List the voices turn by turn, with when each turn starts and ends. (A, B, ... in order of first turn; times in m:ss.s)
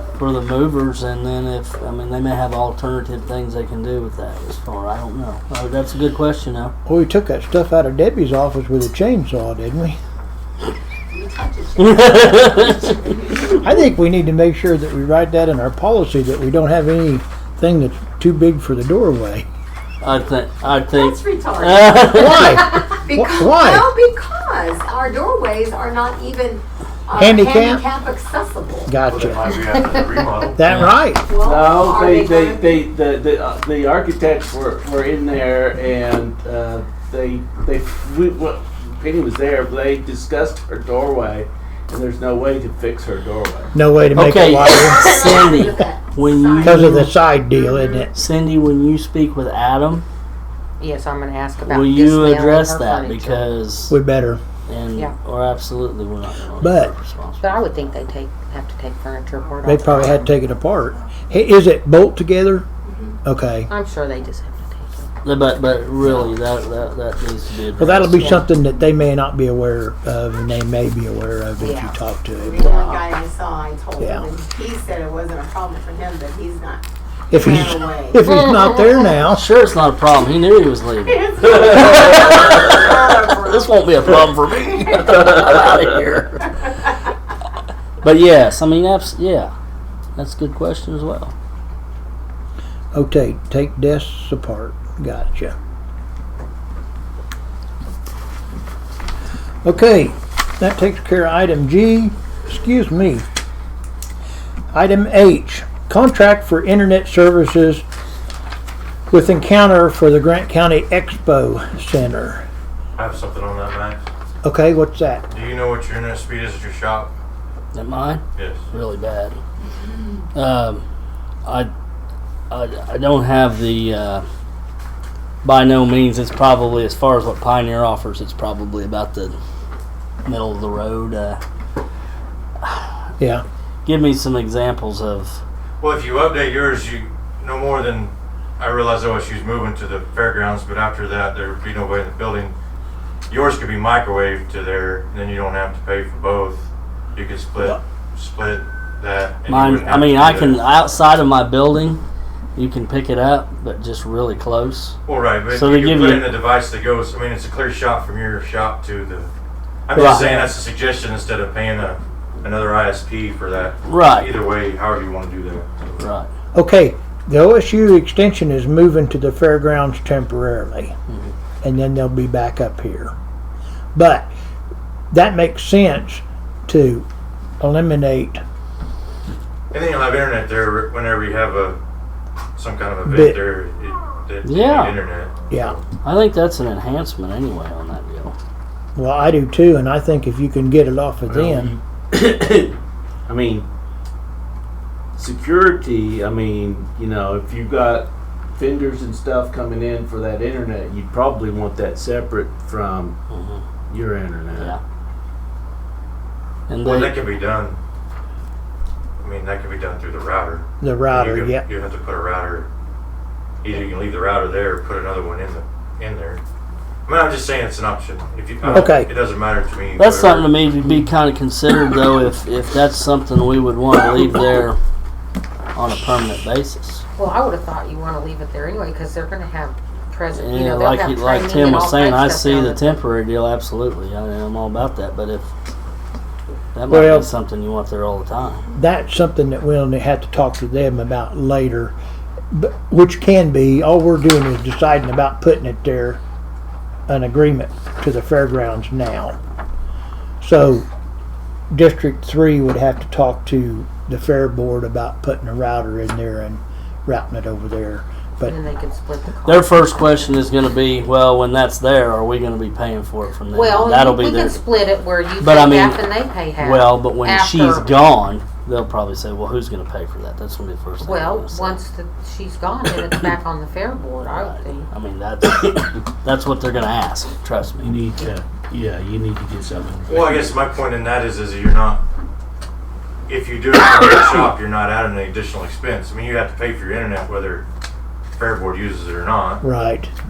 0:00.2-0:06.7 A
0:06.8-0:10.0 B
0:11.1-0:13.7 C
0:11.8-0:12.9 A
0:13.5-0:19.5 B
0:20.0-0:22.8 A
0:20.7-0:28.9 C
0:22.0-0:23.9 B
0:27.2-0:27.8 B
0:28.9-0:29.4 B
0:29.1-0:30.6 D
0:30.6-0:31.3 B
0:30.6-0:30.9 A
0:31.3-0:32.8 C
0:31.4-0:43.7 E
0:43.8-0:45.1 B
0:44.1-0:47.1 A
0:44.7-0:46.8 C
0:46.6-0:48.1 B
0:47.6-0:48.0 C
0:48.1-0:50.0 A
0:50.8-0:53.5 F
0:51.7-0:54.0 A
0:53.9-0:54.4 B
0:54.7-0:57.7 A
0:56.6-0:56.9 B
0:57.4-1:00.3 F
0:59.6-1:02.7 B
1:02.9-1:03.1 C
1:03.2-1:03.7 B
1:03.7-1:05.1 F
1:05.2-1:08.4 A
1:07.8-1:12.6 B
1:11.6-1:12.0 F
1:12.4-1:18.2 C
1:12.6-1:13.0 F
1:14.0-1:14.3 B
1:17.3-1:19.5 B
1:18.3-1:19.0 F
1:19.3-1:26.5 A
1:21.1-1:25.1 C
1:26.4-1:26.9 C
1:28.0-1:29.5 A
1:30.2-1:31.3 A
1:32.9-1:35.6 B
1:39.6-1:43.2 B
1:44.7-1:47.8 B
1:49.1-1:52.4 B
1:53.0-1:54.0 D
1:54.4-1:55.2 B
1:55.3-1:57.1 D
1:57.7-1:59.4 A
1:58.4-1:58.6 D
2:00.3-2:00.8 A
2:01.4-2:01.7 A
2:02.5-2:04.2 A
2:05.4-2:09.4 A
2:10.2-2:11.4 A
2:12.6-2:12.9 A
2:13.2-2:13.4 B
2:13.8-2:15.4 A
2:15.8-2:22.5 D
2:23.3-2:30.6 D
2:29.5-2:32.0 A
2:32.6-2:35.0 A
2:35.1-2:39.3 D
2:35.5-2:36.3 A
2:39.9-2:45.9 D
2:39.9-2:40.5 A
2:43.8-2:44.3 A
2:46.0-2:46.3 A
2:46.5-2:51.0 B
2:51.6-2:53.1 B
2:53.9-2:54.3 B
2:55.1-2:57.1 B
2:57.6-2:58.4 B
2:59.7-3:01.8 D
3:02.6-3:05.8 D
3:03.0-3:03.4 B
3:04.4-3:04.9 A
3:05.5-3:05.8 B
3:06.0-3:08.4 A
3:09.0-3:11.7 B
3:11.3-3:12.8 E
3:13.3-3:13.7 E
3:15.2-3:23.2 E
3:23.3-3:23.6 A
3:23.9-3:24.8 E
3:24.6-3:24.8 A
3:26.7-3:27.2 A
3:26.8-3:27.8 D
3:29.2-3:32.7 D
3:30.8-3:31.6 B
3:33.6-3:36.4 D
3:37.1-3:40.5 D
3:38.7-3:39.1 B
3:40.0-3:44.8 A
3:45.8-3:47.0 A
3:47.2-3:53.0 F
3:50.3-3:55.5 A
3:56.8-3:58.6 A
3:56.9-3:57.3 B
3:58.8-4:02.0 B
4:02.5-4:06.2 B
4:07.1-4:09.4 B
4:10.4-4:10.9 B
4:11.7-4:18.6 B
4:18.4-4:20.4 F
4:19.4-4:24.6 A
4:23.5-4:28.1 F
4:25.4-4:26.0 A
4:26.6-4:31.8 A
4:31.0-4:34.9 F
4:34.2-4:38.0 A
4:37.8-4:40.6 E
4:40.1-4:42.0 D
4:43.3-4:47.6 D
4:48.4-4:49.6 D
4:49.6-4:50.1 B